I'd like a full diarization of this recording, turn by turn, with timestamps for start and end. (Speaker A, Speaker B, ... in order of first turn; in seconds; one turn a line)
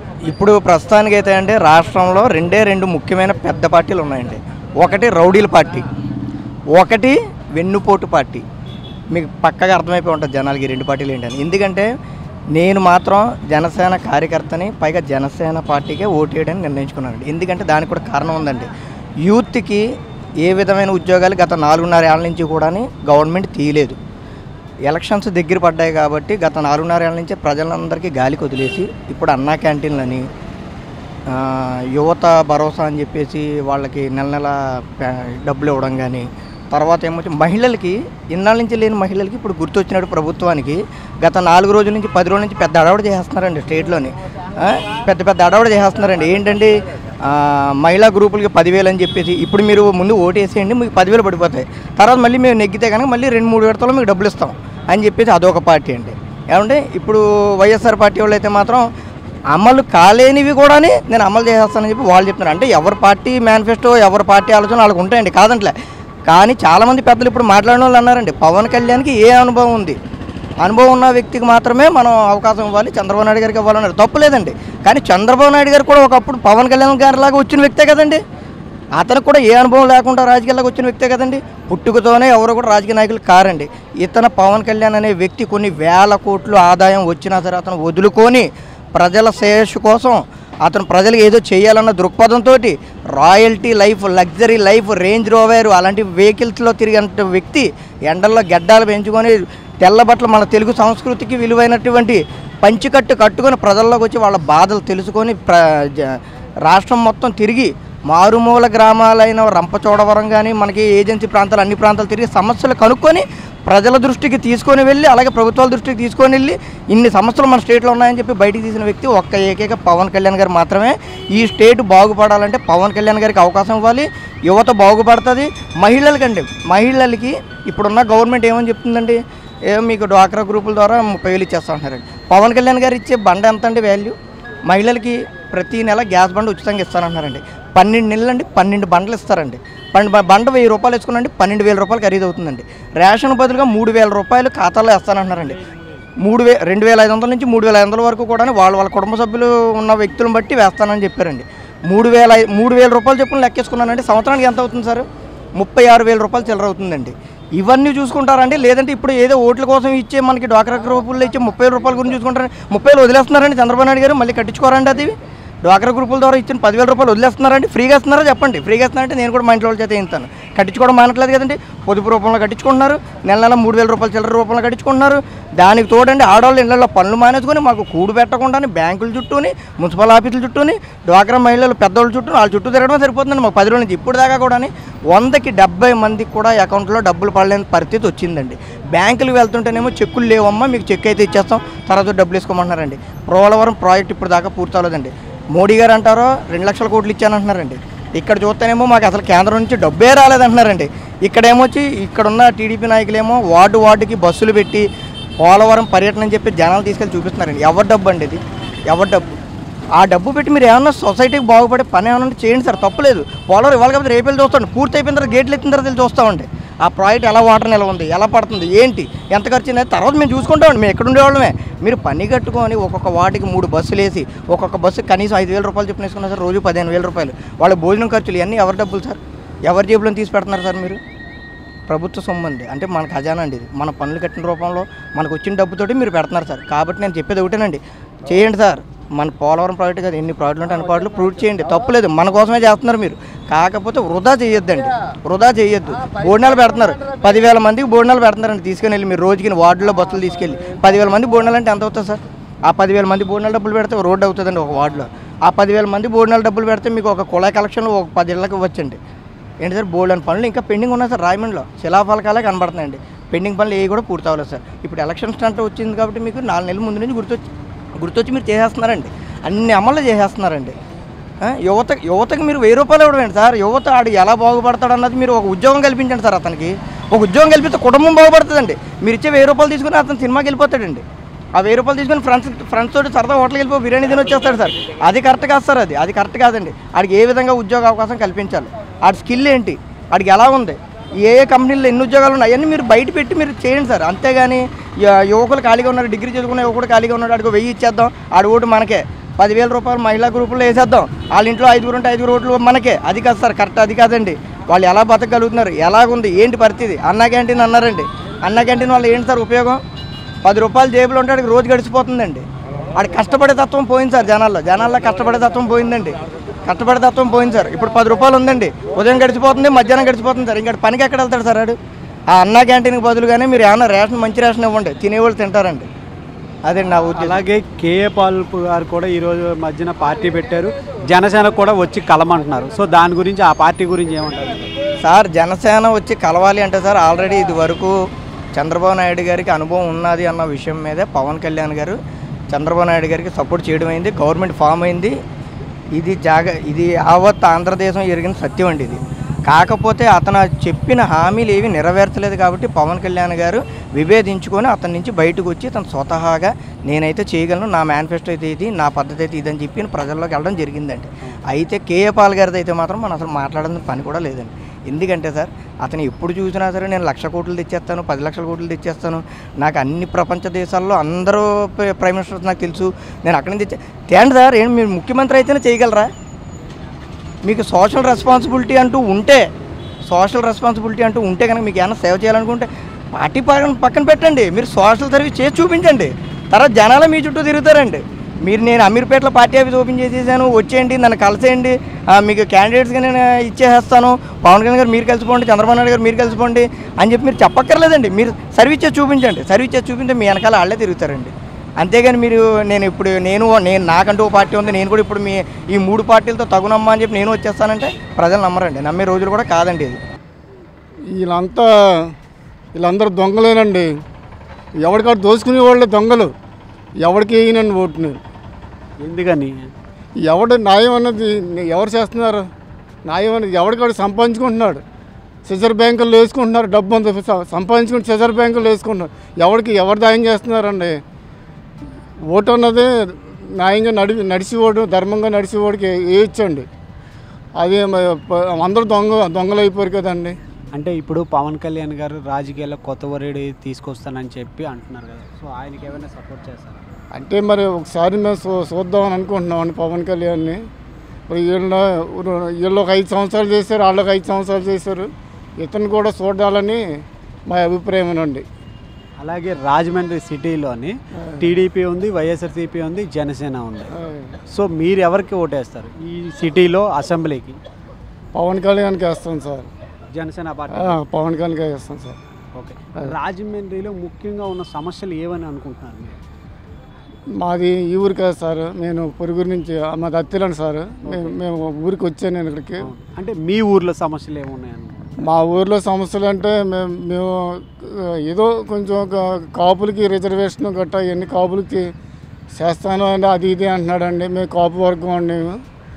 Speaker A: 0.3-5.8
Speaker A: 6.7-8.4
Speaker A: 9.1-11.9
Speaker A: 12.6-18.7
Speaker A: 19.2-19.8
Speaker A: 20.4-24.0
Speaker A: 24.9-30.2
Speaker A: 31.3-58.9
Speaker A: 59.5-65.7
Speaker A: 66.3-70.0
Speaker A: 70.6-78.2
Speaker A: 79.0-134.2
Speaker A: 134.7-145.6
Speaker A: 146.2-204.9
Speaker A: 205.4-209.4
Speaker A: 210.0-231.0
Speaker A: 231.9-259.0
Speaker A: 259.6-267.4
Speaker A: 268.0-270.8
Speaker A: 271.4-281.0
Speaker A: 281.6-309.8
Speaker A: 310.4-312.4
Speaker A: 313.0-321.8
Speaker A: 322.3-325.9
Speaker A: 326.7-327.4
Speaker B: 327.2-334.7
Speaker A: 335.0-337.9
Speaker A: 338.5-342.0
Speaker A: 342.5-345.2
Speaker A: 346.0-376.1
Speaker A: 377.5-379.4
Speaker A: 380.1-410.0
Speaker C: 411.1-411.7
Speaker C: 412.8-413.9
Speaker C: 414.8-416.3
Speaker C: 417.0-418.2
Speaker B: 419.0-419.7
Speaker C: 420.3-422.4
Speaker C: 423.1-424.8
Speaker C: 425.5-431.0
Speaker C: 432.3-436.7
Speaker C: 437.6-440.4
Speaker B: 440.7-446.8
Speaker C: 447.1-450.6
Speaker C: 451.3-456.8
Speaker C: 457.5-458.4
Speaker B: 459.2-463.9
Speaker C: 464.0-464.3
Speaker B: 464.5-467.6
Speaker C: 468.3-469.7
Speaker B: 470.1-471.0
Speaker C: 470.8-472.2
Speaker B: 472.5-476.2
Speaker C: 477.4-482.9
Speaker B: 481.1-481.4
Speaker B: 482.8-485.1
Speaker C: 485.2-491.9
Speaker C: 492.6-495.6